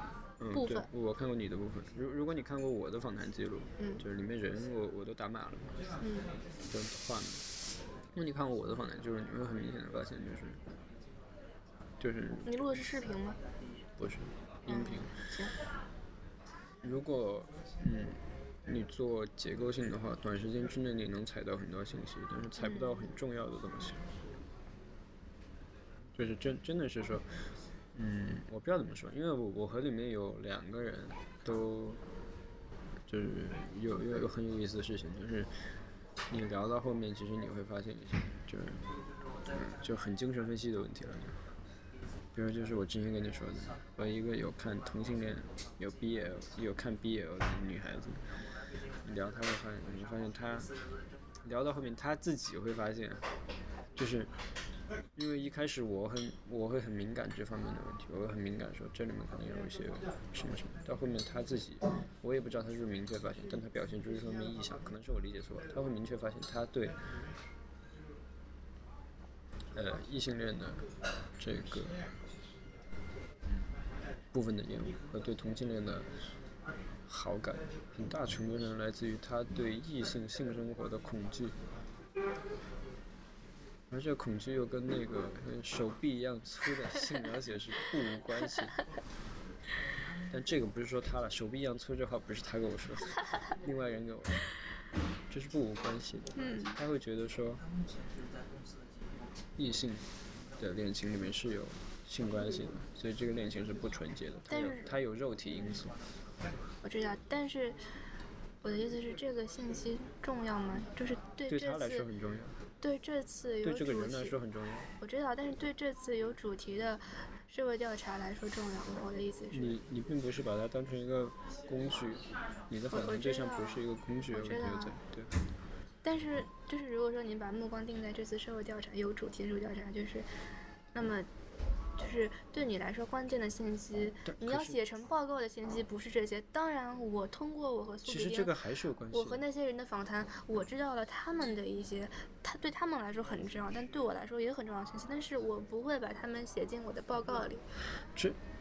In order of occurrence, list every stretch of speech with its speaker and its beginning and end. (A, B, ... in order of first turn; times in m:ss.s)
0:00.4-0:05.7 A
0:00.5-0:00.9 B
0:06.0-0:06.3 B
0:06.7-0:07.4 A
0:08.1-0:10.6 A
0:12.0-0:12.8 A
0:12.4-0:13.4 B
0:14.0-0:15.2 A
0:14.6-0:15.5 B
0:16.8-0:24.0 A
0:22.6-0:23.0 B
0:26.1-0:27.2 A
0:27.9-0:32.0 A
0:33.1-0:35.5 A
0:36.3-0:38.8 A
0:39.5-0:41.4 A
0:42.3-0:48.2 A
0:49.0-0:50.7 A
0:51.4-0:53.2 A
0:54.0-0:54.3 A
0:55.2-1:06.9 A
1:09.7-1:10.8 A
1:11.4-1:12.0 A
1:14.3-1:16.1 A
1:17.1-1:21.5 A
1:23.9-1:28.7 A
1:30.3-1:34.4 A
1:35.3-1:37.6 A
1:36.4-1:36.8 B
1:39.6-1:40.0 A
1:40.6-1:45.9 A
1:44.5-1:44.9 B
1:46.8-1:47.8 B
1:48.6-1:52.0 B
1:51.5-1:52.5 A
1:52.8-1:54.4 B
1:53.6-1:54.9 A
1:55.0-1:59.7 B
1:59.5-2:05.3 A
2:02.9-2:05.0 B
2:06.0-2:10.3 B
2:10.9-2:11.3 B
2:12.0-2:18.5 B
2:14.3-2:14.8 A
2:18.1-2:19.4 A
2:19.1-2:27.6 B